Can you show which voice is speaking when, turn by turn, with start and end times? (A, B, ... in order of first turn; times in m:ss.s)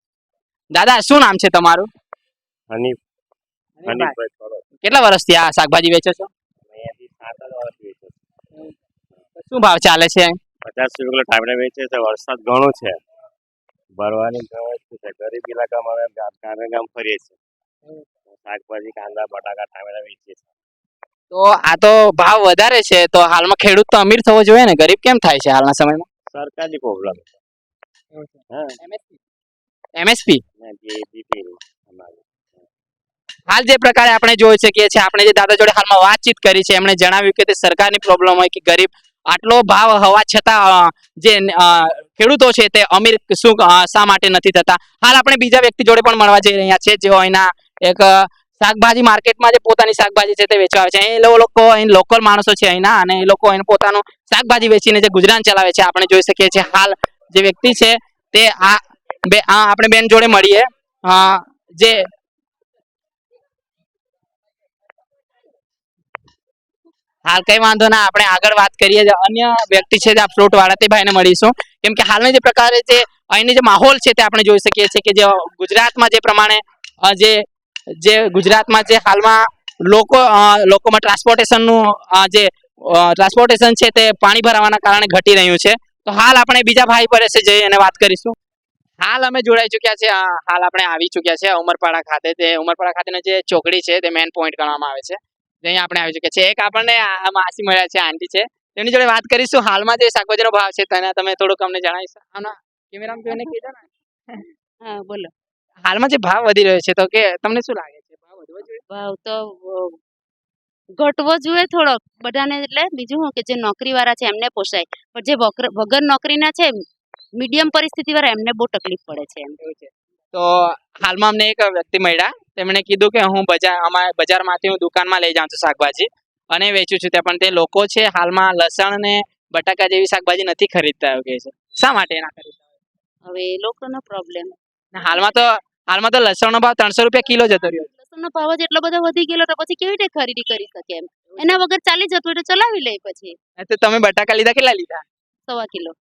0:00.7-0:01.9 A
0:02.7-0:03.0 B
0:03.8-0:04.1 A
0:03.8-0:04.6 B
0:04.8-0:06.3 A
0:06.7-0:08.2 B
0:09.4-0:10.4 A
0:10.6-0:13.0 B
0:14.0-0:17.4 B
0:18.3-0:20.5 B
0:21.3-0:26.0 A
0:26.3-0:27.4 B
0:28.1-0:29.2 A
0:30.0-0:30.4 A
0:30.6-0:32.6 B
0:33.5-1:02.0 A
1:07.2-1:17.4 A
1:18.0-1:28.3 A
1:29.0-1:44.4 A
1:44.8-1:45.3 C
1:45.8-1:48.8 A
1:48.9-1:50.0 C
1:51.0-1:56.7 C
1:57.4-1:59.5 C
1:59.6-2:12.6 A
2:13.3-2:15.4 C
2:14.9-2:17.9 A
2:17.4-2:23.4 C
2:21.3-2:21.6 A
2:23.6-2:25.0 A
2:25.5-2:25.9 C